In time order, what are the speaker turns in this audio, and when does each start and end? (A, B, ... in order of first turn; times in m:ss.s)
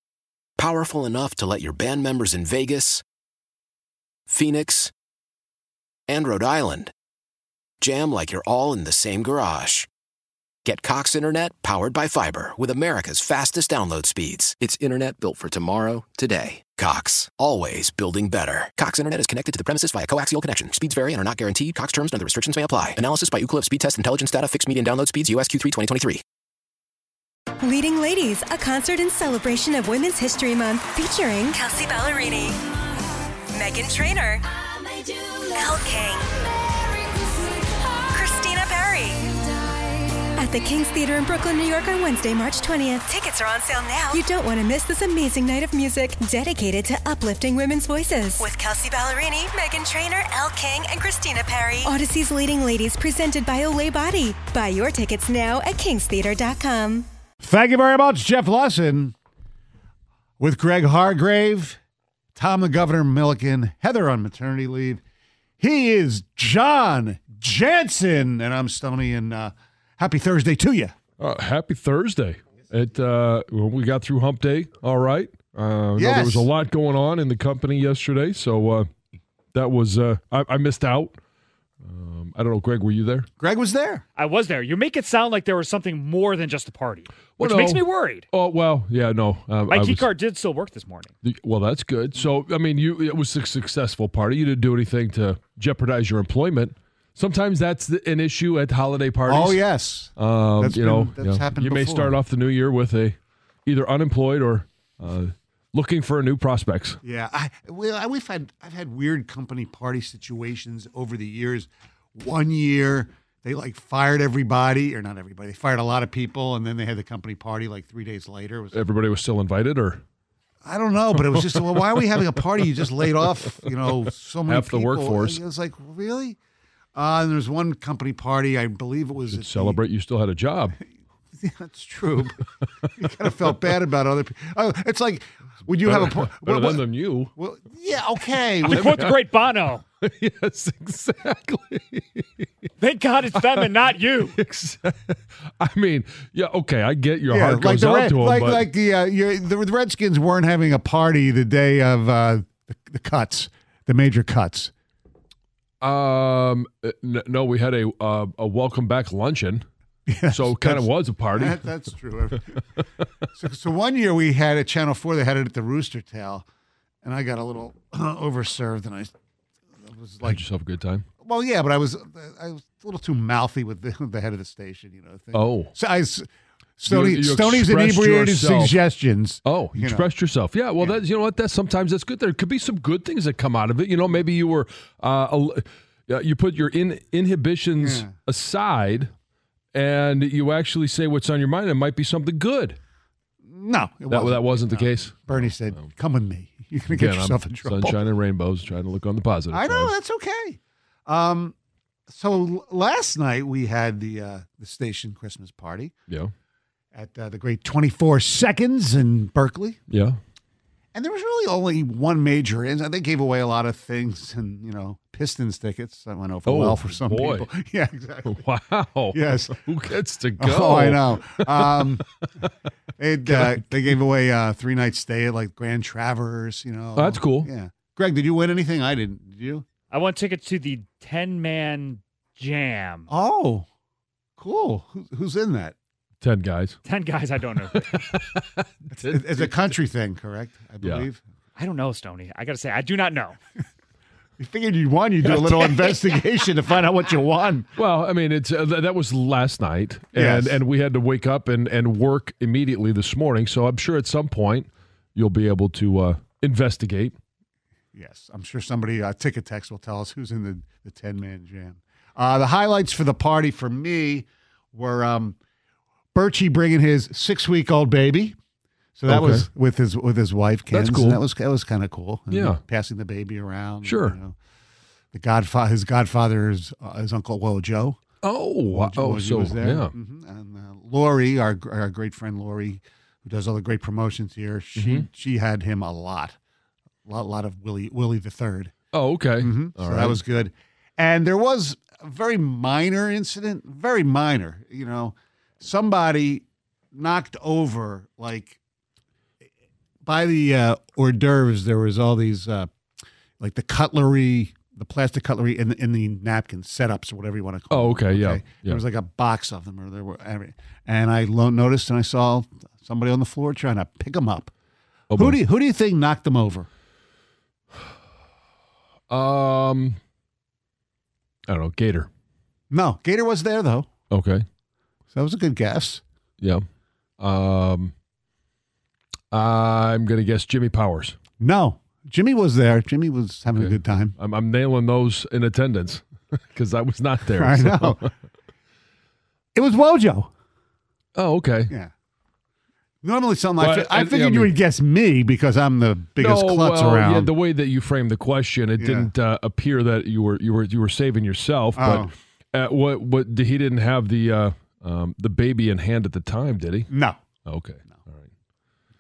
0:00.6-0:03.0 A
0:04.3-0:04.9 A
0:06.1-0:06.9 A
0:07.8-0:09.9 A
0:10.6-0:26.2 A
0:27.6-0:32.6 B
0:33.5-0:34.4 B
0:35.5-0:36.3 B
0:38.1-0:39.4 B
0:40.4-0:57.1 B
0:57.4-0:59.2 C
1:00.4-1:01.8 C
1:02.4-1:05.0 C
1:05.6-1:11.0 C
1:11.2-1:18.9 D
1:16.0-1:16.5 C
1:19.5-1:21.2 D
1:21.8-1:23.3 D
1:23.4-1:24.0 C
1:24.2-1:28.3 E
1:27.4-1:30.1 D
1:29.7-1:31.1 E
1:31.2-1:47.0 D
1:39.3-1:42.2 C
1:47.0-1:58.8 C
1:58.7-2:00.0 D
2:00.6-2:06.4 C
2:01.2-2:01.7 D
2:04.5-2:05.4 D
2:07.0-2:09.8 C
2:09.3-2:10.8 D
2:11.4-2:12.5 C
2:13.0-2:16.8 C
2:15.8-2:17.3 D
2:17.4-2:18.8 C
2:18.6-2:19.8 E
2:18.7-2:19.2 D
2:20.0-2:22.5 D
2:22.8-2:24.4 E
2:23.4-2:23.7 D
2:24.4-2:28.7 D
2:27.3-2:34.7 C
2:35.8-2:39.6 D
2:40.1-2:42.6 C
2:40.3-2:41.8 D
2:43.4-2:46.5 C
2:47.0-2:49.1 C
2:49.8-2:50.4 C
2:50.2-2:51.1 D
2:51.2-2:56.3 C
2:55.3-2:55.8 D
2:56.8-3:00.1 C
2:56.9-2:58.8 D
2:59.4-3:09.1 D
3:07.8-3:08.2 C
3:09.7-3:12.8 D
3:13.5-3:18.0 C
3:14.1-3:15.9 D
3:16.9-3:19.9 D
3:19.5-3:21.6 C
3:22.1-3:25.9 C
3:26.9-3:29.8 C
3:29.9-3:30.2 D
3:30.9-3:38.4 C
3:36.5-3:37.5 D
3:38.2-3:42.5 D
3:39.1-3:39.6 C
3:40.4-3:42.0 C
3:43.0-3:49.7 C
3:43.3-3:43.8 D
3:47.0-3:47.5 D
3:49.9-3:53.1 E
3:53.1-3:53.7 C
3:54.4-3:55.7 C
3:56.2-3:56.8 D
3:56.9-3:58.2 E
3:57.8-3:59.6 D
3:59.0-4:01.2 C
4:00.8-4:01.1 D
4:01.6-4:03.4 E
4:04.4-4:07.7 C
4:05.4-4:05.7 D
4:07.8-4:17.2 D
4:10.2-4:10.6 C
4:17.9-4:25.4 C
4:26.1-4:28.4 C
4:29.0-4:34.4 C
4:29.1-4:29.5 D
4:30.7-4:31.2 D
4:32.3-4:32.6 D
4:33.8-4:34.2 D
4:35.1-4:38.0 C
4:38.2-4:39.9 D
4:38.7-4:46.4 C
4:44.8-4:45.1 D
4:47.0-4:48.7 C
4:48.9-4:50.2 D
4:49.4-4:58.6 C
5:00.0-5:02.7 C
5:03.4-5:14.5 C
5:07.7-5:08.8 D
5:15.1-5:15.4 D
5:15.2-5:16.7 C
5:19.1-5:20.0 D
5:21.5-5:22.1 D
5:22.7-5:23.9 C
5:24.1-5:24.4 D
5:25.1-5:26.0 C
5:27.2-5:27.9 D
5:29.3-5:31.2 D
5:31.4-5:34.2 C
5:33.5-5:38.1 D
5:37.4-5:38.1 C
5:39.5-5:40.3 C
5:41.2-5:41.7 D
5:43.0-5:47.3 C
5:43.6-5:44.6 D
5:46.2-5:56.9 D
5:48.8-5:49.1 C
5:51.8-5:52.1 C
5:56.9-5:57.2 C
5:57.5-5:58.3 D